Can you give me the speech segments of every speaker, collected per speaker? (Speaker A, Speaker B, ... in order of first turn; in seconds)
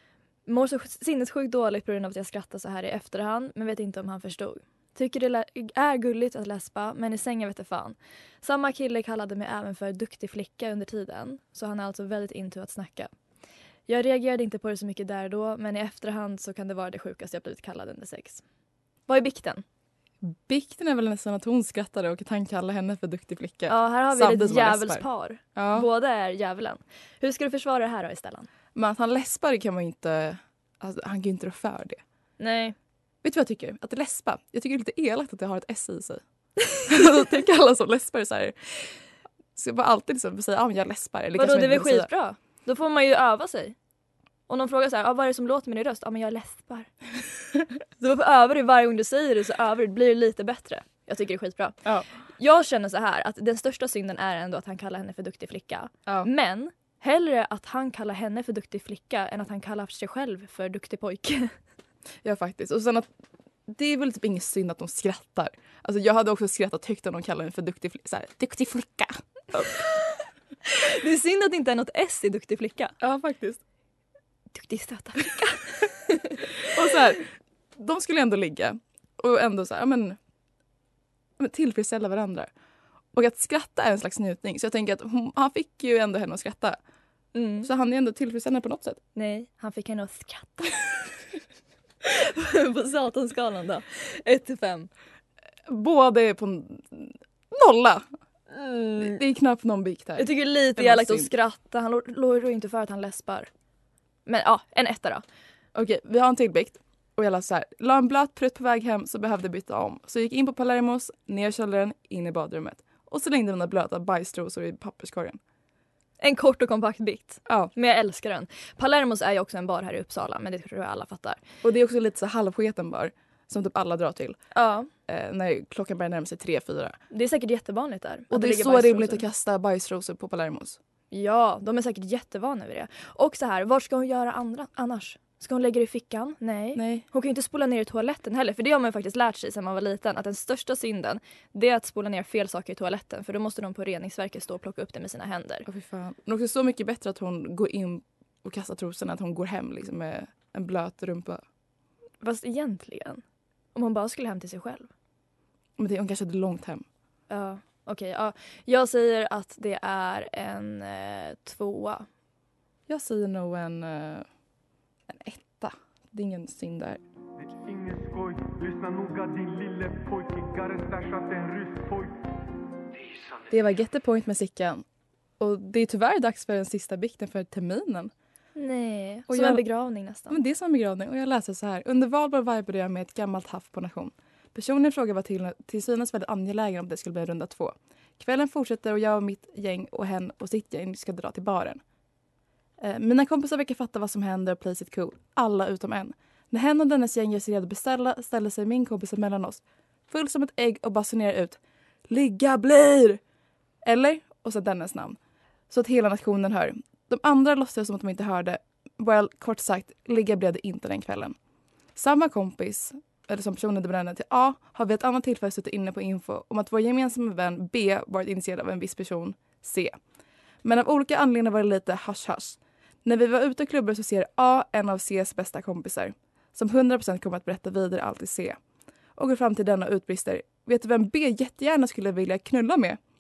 Speaker A: 0.5-13.1, 13.9-18.4, 19.1-19.6, 23.7-28.5, 32.4-32.8, 41.4-43.8, 44.5-46.9, 48.0-51.8, 52.4-61.5, 70.7-73.0, 74.5-76.7, 87.3-87.7, 89.2-91.2, 92.0-94.9, 98.5-99.2, 100.2-103.5, 104.3-105.2, 116.2-121.4, 124.5-124.9, 127.1-129.2, 131.1-145.7, 152.2-153.2, 153.8-154.9, 157.3-162.1, 178.6-180.4
Speaker B: 20.2-25.0, 25.6-25.9, 28.8-32.0, 33.2-36.2, 36.9-39.0, 39.6-42.1, 62.2-63.1, 63.7-69.8, 73.0-73.6, 76.7-80.2, 81.4-82.5, 83.1-86.8, 87.6-89.0, 95.7-98.0, 99.0-101.3, 105.8-115.4, 117.5-117.7, 121.6-124.4, 125.1-127.0, 128.3-130.8, 136.8-137.1, 145.7-151.4, 155.8-156.8, 162.9-164.3, 165.1-167.0, 173.5-174.8, 175.4-178.1, 179.3-179.6, 180.3-191.8, 192.8-203.2, 203.8-205.2, 205.7-211.4, 212.0-219.9, 220.6-228.6, 229.2-233.0
Speaker C: 167.4-172.2